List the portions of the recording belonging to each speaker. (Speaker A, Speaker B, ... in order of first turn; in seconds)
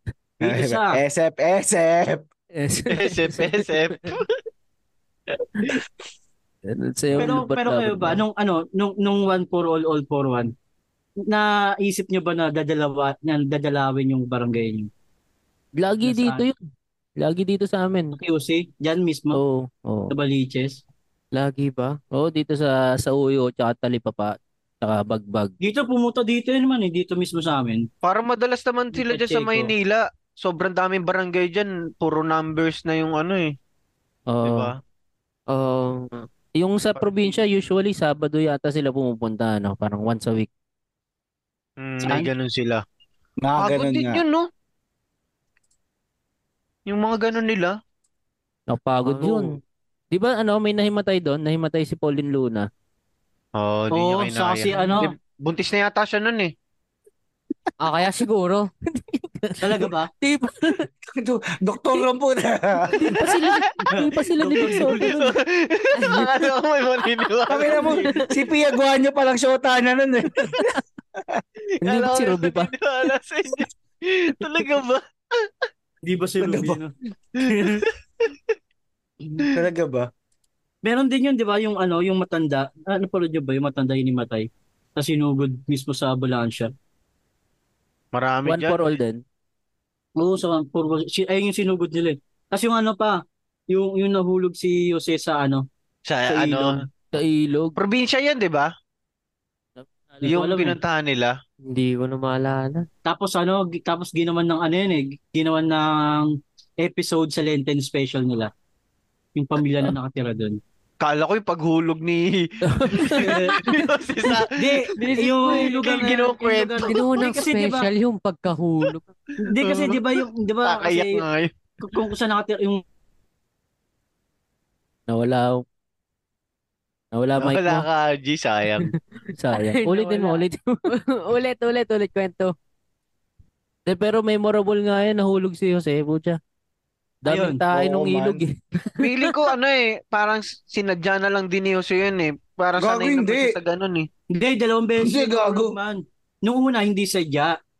Speaker A: 0.4-2.2, 43.4-44.2, 61.1-63.1, 67.5-70.5, 76.4-76.8, 79.4-80.1, 137.7-138.4, 142.8-143.5, 145.0-145.8
Speaker B: 0.4-1.0, 7.2-10.5, 11.3-14.9, 16.0-16.4, 18.1-19.4, 20.1-20.8, 25.6-27.9, 28.9-29.7, 42.0-42.3, 53.9-55.1, 59.6-60.1, 63.8-65.2, 67.8-68.1, 76.0-77.8, 80.8-86.7, 90.2-95.7, 96.3-96.8, 100.2-100.8, 103.0-108.5, 109.3-110.6, 113.2-113.7, 114.5-117.9, 119.4-121.2, 121.8-122.8, 137.3-137.6, 144.3-147.6
Speaker C: 2.5-4.2, 6.7-8.2, 15.8-16.6, 17.2-18.1, 19.3-20.1, 22.1-25.5, 34.3-34.7, 36.6-40.5, 48.7-49.6, 50.1-52.7, 58.9-60.9, 62.9-65.4, 71.8-72.7, 88.5-89.2, 97.1-97.8, 99.8-100.2, 112.6-113.7, 115.0-115.6, 125.1-125.6, 127.1-127.8, 129.3-130.8, 133.8-136.4, 137.2-139.0
Speaker D: 2.9-4.3, 28.0-33.5, 34.4-34.8, 41.8-42.8, 43.6-44.5, 46.9-47.8, 53.6-56.5, 65.0-68.0, 71.8-75.7, 77.4-78.3, 88.1-88.8, 96.1-96.8, 97.8-98.7, 100.2-101.3, 111.0-114.9, 115.5-116.9, 119.6-122.0, 127.4-128.9, 139.0-144.1
Speaker E: 21.3-22.0, 35.5-36.3, 49.0-49.6, 57.8-58.7, 66.0-66.4, 101.7-102.8, 116.8-119.1, 129.5-132.5